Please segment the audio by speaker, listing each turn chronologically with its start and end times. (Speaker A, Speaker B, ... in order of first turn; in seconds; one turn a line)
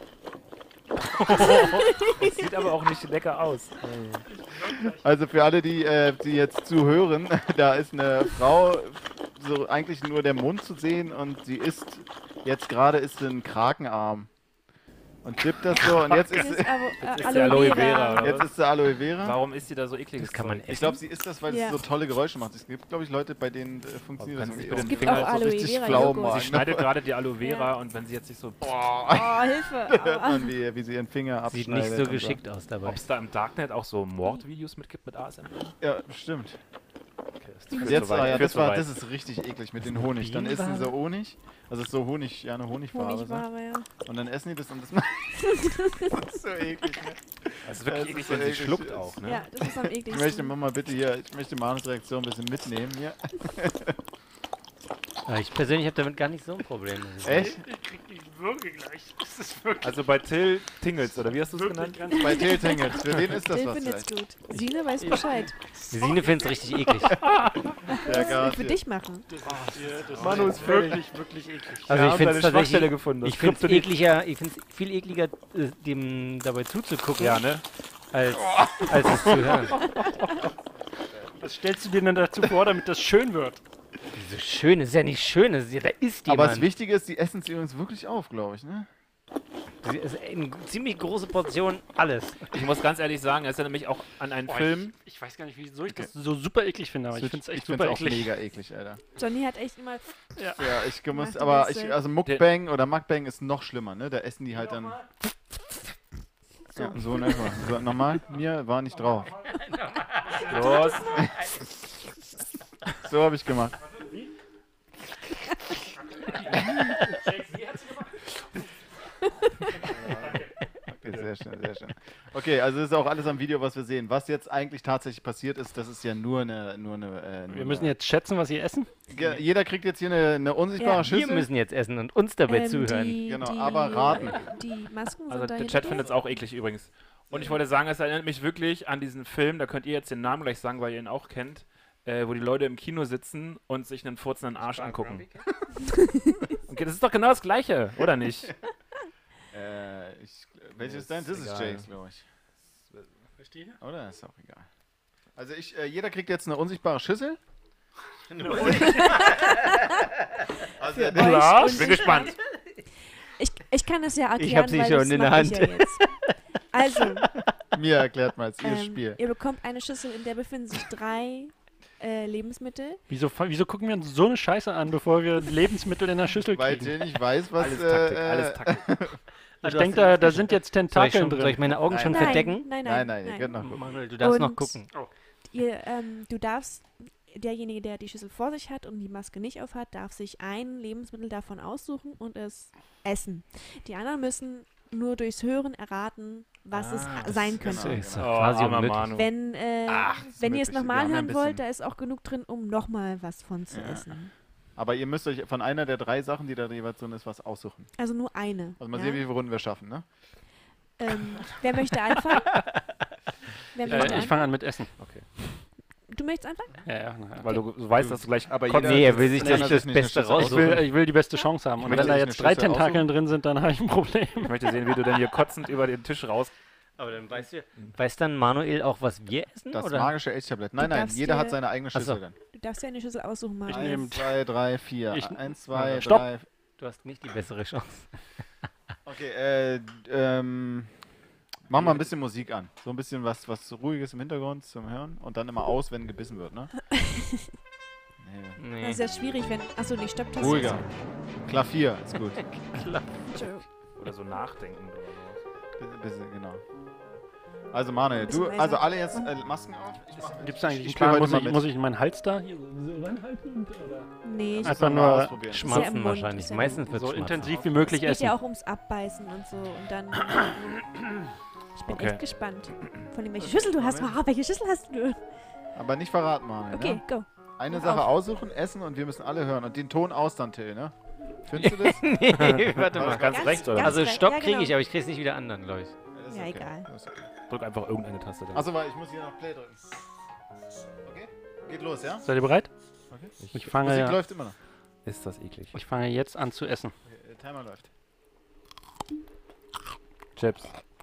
Speaker A: 1.1-4.2
Speaker B: 1.3-2.4
Speaker C: 4.5-4.9
Speaker D: 4.6-14.3
Speaker D: 15.2-16.9
Speaker B: 16.1-18.3
Speaker A: 17.0-18.5
Speaker D: 18.1-19.4
Speaker A: 19.2-20.7
Speaker E: 20.2-21.0
Speaker D: 20.7-26.9
Speaker B: 21.5-21.8
Speaker A: 24.2-28.8
Speaker B: 24.7-26.6
Speaker B: 27.4-27.7
Speaker D: 28.6-32.4
Speaker B: 29.1-30.5
Speaker E: 31.5-33.0
Speaker A: 32.8-35.8
Speaker D: 35.8-36.6
Speaker A: 37.4-38.9
Speaker B: 37.7-38.4
Speaker D: 37.8-43.5
Speaker E: 39.9-40.9
Speaker B: 42.9-43.9
Speaker D: 44.0-54.0
Speaker B: 45.4-46.2
Speaker A: 47.6-49.5
Speaker B: 49.2-50.5
Speaker E: 55.2-57.5
Speaker D: 57.2-57.6
Speaker C: 57.3-60.0
Speaker A: 59.8-62.0
Speaker C: 61.5-62.5
Speaker B: 62.1-65.7
Speaker D: 62.2-64.1
Speaker C: 65.0-65.3
Speaker E: 65.9-67.2
Speaker A: 67.2-67.7
Speaker B: 67.9-69.2
Speaker D: 67.9-68.8
Speaker C: 69.3-72.0
Speaker A: 69.5-71.0
Speaker D: 70.1-70.8
Speaker E: 71.9-77.4
Speaker A: 71.9-73.9
Speaker A: 77.2-77.6
Speaker E: 78.1-79.9
Speaker A: 80.0-80.3
Speaker D: 80.3-81.3
Speaker C: 81.4-83.6
Speaker E: 84.1-86.7
Speaker D: 86.2-88.9
Speaker E: 89.8-92.5
Speaker A: 92.5-94.9
Speaker C: 94.5-98.3
Speaker D: 97.1-99.0
Speaker B: 99.2-100.1
Speaker D: 100.6-105.0
Speaker B: 101.1-102.0
Speaker C: 104.5-105.0
Speaker D: 106.7-109.3
Speaker C: 109.2-109.6
Speaker C: 110.2-111.2
Speaker E: 110.2-110.5
Speaker A: 110.4-111.2
Speaker D: 113.0-113.7
Speaker C: 113.8-114.3
Speaker C: 116.1-118.3
Speaker C: 119.8-120.5
Speaker D: 119.9-127.9
Speaker C: 127.5-128.9
Speaker D: 129.1-131.5
Speaker B: 130.8-131.0
Speaker E: 131.0-133.2
Speaker B: 132.4-136.1
Speaker D: 133.2-134.5
Speaker A: 135.3-145.3
Speaker D: 137.3-137.6
Speaker E: 144.8-145.2
Speaker B: 145.8-146.4
Speaker A: 146.7-148.5
Speaker D: 149.5-152.2
Speaker A: 150.8-151.9
Speaker C: 153.4-153.8
Speaker D: 153.8-154.7
Speaker D: 155.3-157.4
Speaker C: 158.3-159.3
Speaker E: 158.3-159.5
Speaker B: 158.8-160.0
Speaker D: 160.8-161.9
Speaker B: 160.8-162.4
Speaker A: 161.1-162.4
Speaker C: 161.2-161.7
Speaker B: 163.4-166.0
Speaker E: 164.4-166.3
Speaker B: 166.7-167.3
Speaker E: 166.9-167.2
Speaker D: 167.7-169.2
Speaker B: 168.6-173.0
Speaker C: 173.1-177.0
Speaker D: 176.5-179.2
Speaker A: 177.6-178.9
Speaker E: 179.6-182.7
Speaker C: 179.6-181.7
Speaker D: 181.9-183.9
Speaker B: 182.0-183.6
Speaker E: 183.6-184.9
Speaker B: 184.2-184.8
Speaker B: 185.5-198.2
Speaker A: 196.7-197.6
Speaker D: 197.6-198.3
Speaker E: 197.6-199.2
Speaker A: 198.2-199.3
Speaker B: 199.1-204.3
Speaker D: 199.9-201.6
Speaker D: 203.7-204.1
Speaker D: 204.8-207.9
Speaker B: 208.0-209.2
Speaker D: 208.8-210.1
Speaker B: 211.0-212.6
Speaker B: 213.7-214.4
Speaker C: 213.9-214.9
Speaker A: 215.0-215.2
Speaker B: 216.1-216.8
Speaker C: 216.8-217.6
Speaker A: 217.4-219.4
Speaker E: 217.5-218.2
Speaker D: 218.5-220.9
Speaker E: 218.8-220.8
Speaker C: 219.3-219.8
Speaker C: 220.3-224.5
Speaker D: 221.8-223.1
Speaker A: 224.4-226.5
Speaker E: 227.0-230.1
Speaker D: 229.7-232.4
Speaker B: 230.8-231.6
Speaker E: 231.9-232.2
Speaker B: 232.5-234.1
Speaker C: 233.7-234.3
Speaker D: 233.7-236.4
Speaker C: 235.1-236.3
Speaker E: 236.8-238.1
Speaker D: 239.0-240.9
Speaker D: 241.7-246.7
Speaker B: 246.9-247.5
Speaker D: 248.2-248.6
Speaker E: 248.6-249.0
Speaker B: 248.8-250.8
Speaker D: 250.3-250.8
Speaker D: 251.4-252.4
Speaker E: 252.7-253.2
Speaker B: 253.2-253.6
Speaker A: 254.0-255.4
Speaker D: 255.8-256.6
Speaker D: 257.7-261.7
Speaker B: 258.1-259.3
Speaker C: 260.4-264.1
Speaker B: 264.2-264.8
Speaker D: 264.6-265.9
Speaker C: 264.6-265.4
Speaker B: 265.5-266.8
Speaker E: 265.5-267.7
Speaker C: 266.7-268.4
Speaker B: 267.9-270.8
Speaker B: 271.8-275.2
Speaker A: 271.9-272.2
Speaker D: 273.4-274.2
Speaker D: 275.8-277.0
Speaker B: 276.7-278.1
Speaker D: 277.6-283.8
Speaker E: 281.6-285.9
Speaker A: 282.2-284.0
Speaker B: 283.3-284.8
Speaker D: 286.1-287.3
Speaker B: 286.3-286.9
Speaker A: 287.5-288.7
Speaker D: 288.5-289.8
Speaker D: 291.0-292.3
Speaker C: 292.2-292.7
Speaker D: 293.1-294.6
Speaker C: 293.5-294.2
Speaker A: 295.0-295.7
Speaker C: 295.7-296.9
Speaker D: 297.0-297.9
Speaker A: 300.4-300.7